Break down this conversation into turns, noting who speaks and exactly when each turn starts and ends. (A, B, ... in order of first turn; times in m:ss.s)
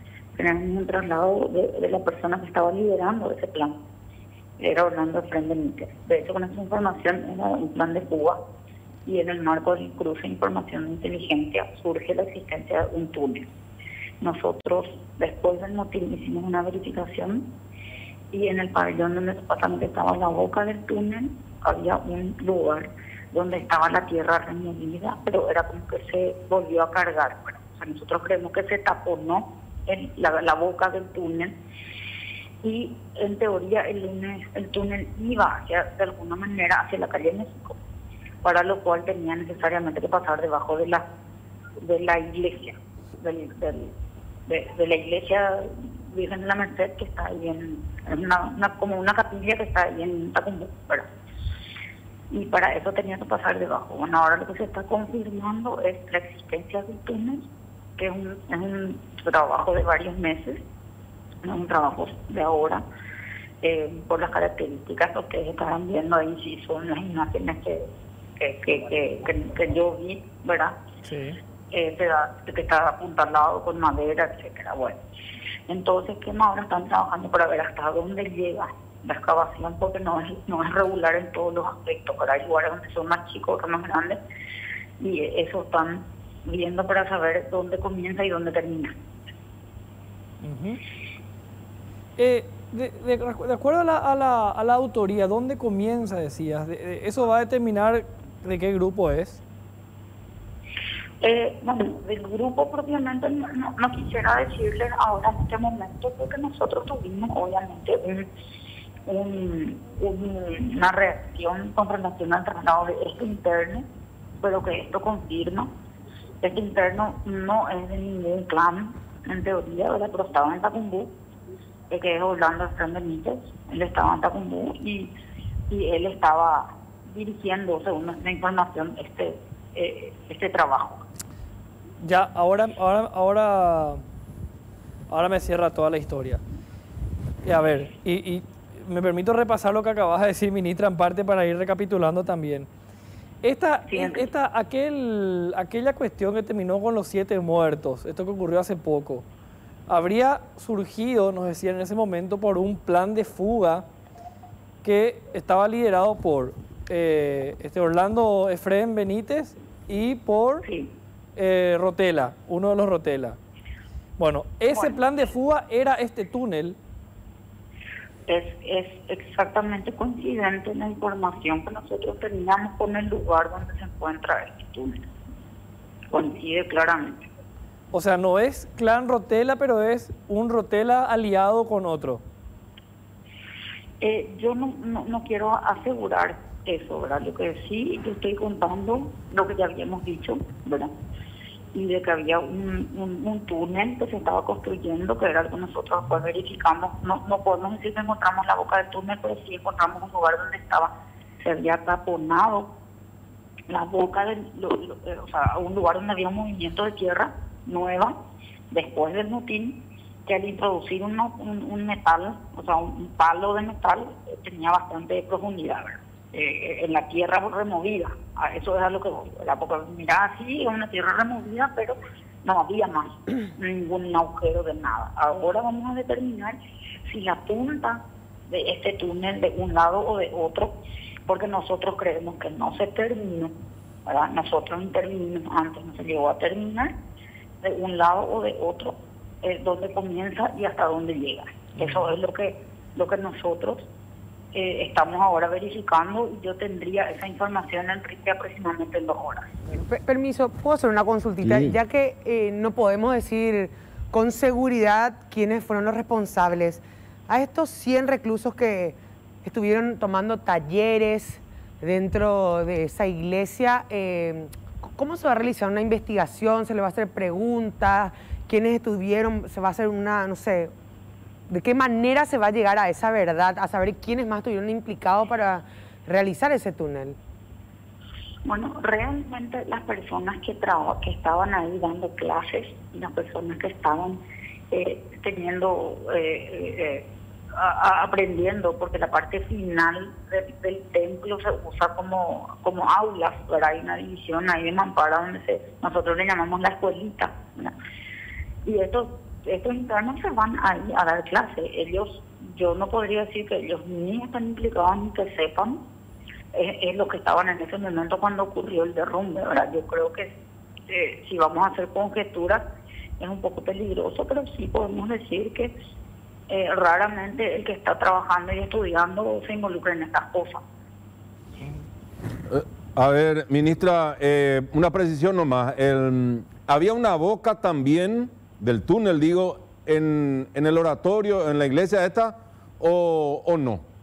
0:00.4-0:03.8 A
0:04.6-0:08.4 A
0:09.1-0:13.5 A
0:14.2-0:17.5 A
0:18.3-0:31.5 A
0:32.6-0:37.8 A
0:38.4-0:41.0 A
0:41.8-0:43.9 A
0:44.5-0:51.1 A
0:52.3-0:57.4 A
0:58.0-1:00.6 A
1:01.4-1:02.8 A
1:03.6-1:07.9 A
1:08.4-1:10.7 A
1:11.0-1:11.4 B
1:11.7-1:15.0 A
1:15.7-1:24.2 A
1:25.0-1:29.0 A
1:30.4-1:30.8 B
1:32.2-1:39.4 B
1:41.2-1:48.3 A
1:49.1-1:53.9 A
1:54.4-1:55.7 A
1:56.4-2:01.1 A
2:01.9-2:05.1 A
2:05.7-2:11.0 A
2:12.0-2:14.0 B
2:15.1-2:16.4 B
2:17.4-2:22.7 B
2:23.4-2:29.3 B
2:23.9-2:24.2 A
2:29.9-2:33.9 B
2:34.8-2:40.7 B
2:40.6-2:40.9 A
2:41.4-2:43.4 B
2:44.2-2:46.8 B
2:48.3-2:55.0 A
2:56.1-2:57.2 A
2:57.9-3:02.2 B
3:04.0-3:10.9 A
3:11.7-3:20.9 A
3:21.4-3:22.7 A
3:23.7-3:28.1 A
3:28.7-3:50.7 A
3:51.3-3:53.5 A
3:54.1-3:56.9 A
3:57.6-4:03.9 A
4:01.8-4:02.1 B
4:04.5-4:09.5 A
4:09.7-4:30.7 C
4:31.5-4:37.2 C
4:38.5-4:44.2 A
4:44.7-4:57.8 A
4:58.6-5:05.8 A
5:06.5-5:10.3 A
5:10.9-5:12.6 A
5:13.2-5:15.7 A
5:16.5-5:20.6 A
5:22.5-5:33.8 D